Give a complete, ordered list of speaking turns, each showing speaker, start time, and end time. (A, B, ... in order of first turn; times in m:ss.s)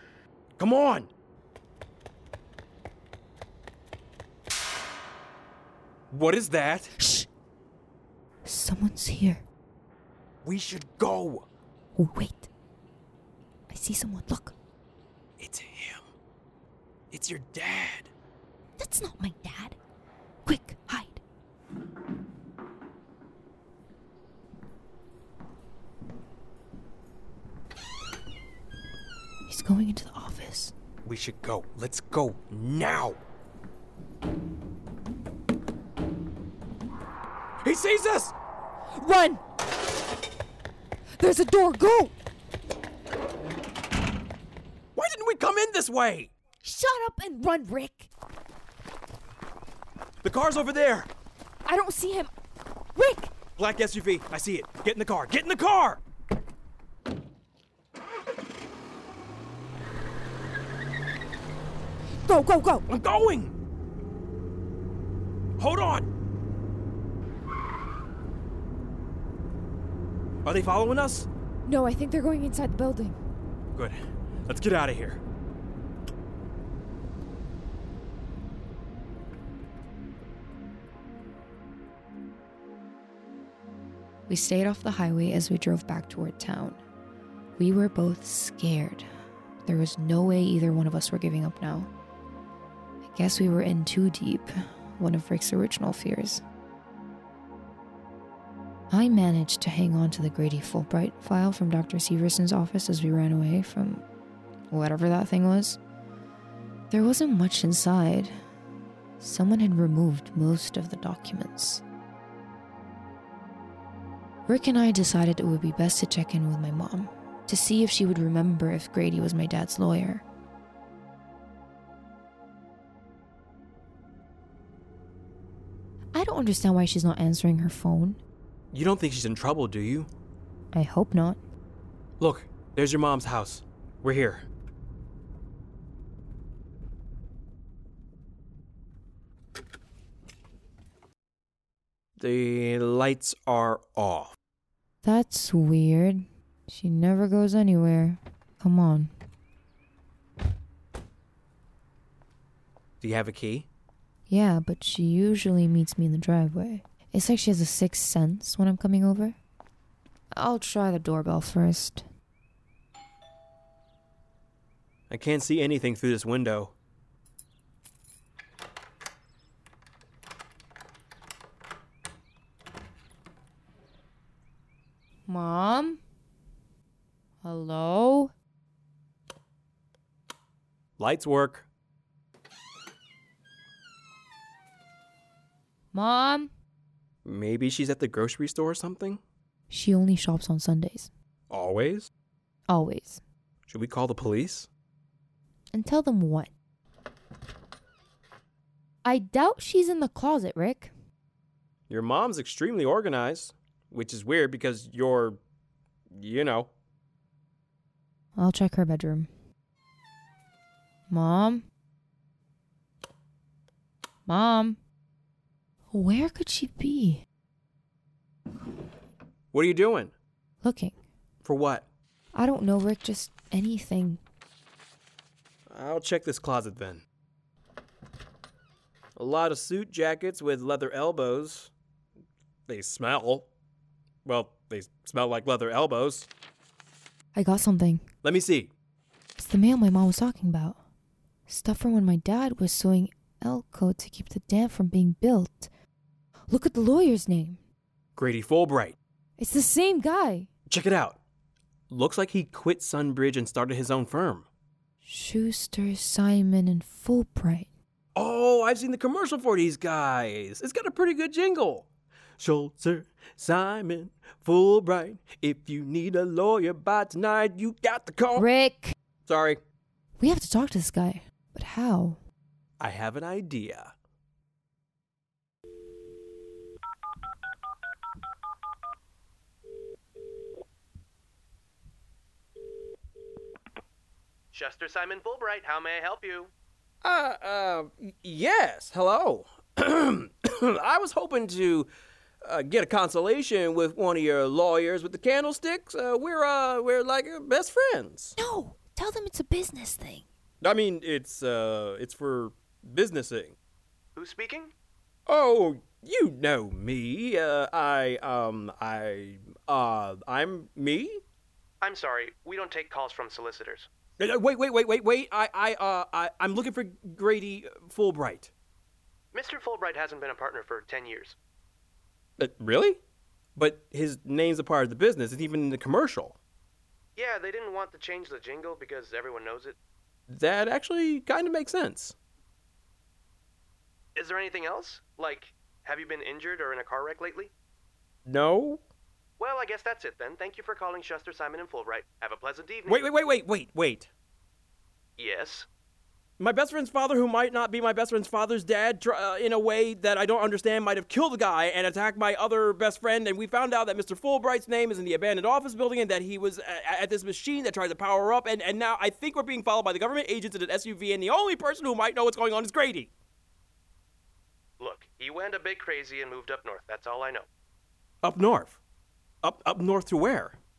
0:00.6-0:01.1 A
0:06.1-0:06.9 A
0:07.0-0:07.3 B
0:08.4-0:09.4 B
0:10.4-0:11.5 A
0:12.0-0:12.5 B
0:13.7-0:14.6 B
0:15.4-0:16.0 A
0:17.1-0:18.1 A
0:18.8-0:19.8 B
0:20.4-0:21.2 B
0:29.5-0:30.7 B
0:31.0-0:33.2 A
0:37.6-0:38.3 A
0:39.0-0:39.4 B
0:41.2-0:42.1 B
0:45.0-0:46.3 A
0:46.6-0:48.1 B
0:50.2-0:51.1 A
0:51.7-0:52.3 B
0:53.0-0:53.3 B
0:53.6-0:56.0 A
1:02.2-1:02.8 B
1:02.9-1:03.5 A
1:05.6-1:06.1 A
1:10.4-1:11.3 A
1:11.7-1:13.2 B
1:13.7-1:15.2 A
1:24.3-1:26.8 B
1:27.6-1:29.0 B
1:29.6-1:31.9 B
1:33.1-1:36.4 B
1:38.9-1:44.0 B
1:44.7-1:45.8 B
1:46.9-1:48.4 B
1:49.2-1:51.8 B
1:54.5-2:00.2 B
2:06.2-2:08.2 B
2:08.7-2:10.1 A
2:10.7-2:11.4 B
2:12.2-2:14.5 A
2:22.2-2:24.4 A
2:25.0-2:29.1 B
2:33.0-2:33.7 A
2:34.3-2:39.4 B
2:40.3-2:42.1 B
2:45.1-2:46.7 A
2:55.3-2:56.0 B
2:57.4-2:58.3 B
3:01.0-3:01.7 A
3:05.9-3:06.5 B
3:07.2-3:09.2 A
3:09.7-3:11.1 B
3:11.5-3:12.1 A
3:12.7-3:13.2 B
3:13.7-3:14.7 A
3:15.7-3:16.5 B
3:19.0-3:20.9 B
3:21.9-3:25.4 A
3:26.1-3:26.7 A
3:28.4-3:29.3 B
3:31.1-3:31.6 B
3:34.3-3:34.8 B
3:35.9-3:37.2 B
3:39.5-3:40.1 A
3:40.6-3:41.0 B
3:41.4-3:41.8 A
3:42.3-3:44.2 B
3:45.7-3:47.0 A
3:49.2-3:51.7 A
3:52.7-3:53.5 A
3:54.2-3:56.3 A
3:57.4-3:58.1 B
3:58.2-3:58.7 A
3:59.4-4:00.8 B
4:01.5-4:05.7 B
4:06.5-4:07.6 B
4:08.2-4:09.0 A
4:09.4-4:10.5 B
4:10.7-4:11.2 A
4:11.9-4:14.5 A
4:15.0-4:17.7 B
4:18.2-4:21.9 A
4:22.4-4:28.5 A
4:28.4-4:28.9 B
4:29.3-4:29.6 A
4:30.2-4:32.2 B
4:32.8-4:33.9 A
4:44.5-4:46.5 C
4:47.0-4:51.9 A
4:52.4-4:58.4 A
4:58.4-5:00.3 B
5:00.6-5:03.6 A
5:04.2-5:04.7 C
5:05.3-5:11.2 A
5:11.8-5:13.9 C
5:14.2-5:18.5 A
5:19.3-5:21.4 C
5:22.4-5:23.0 A
5:23.6-5:26.4 A
5:27.2-5:29.8 C
5:30.3-5:32.2 A
5:34.2-5:37.5 C
5:38.3-5:38.8 A
5:39.4-5:43.0 C
5:42.9-5:44.1 A
5:45.2-5:45.7 C
5:46.4-6:03.1 A
6:04.8-6:07.5 C
6:08.2-6:08.8 A
6:09.4-6:10.6 A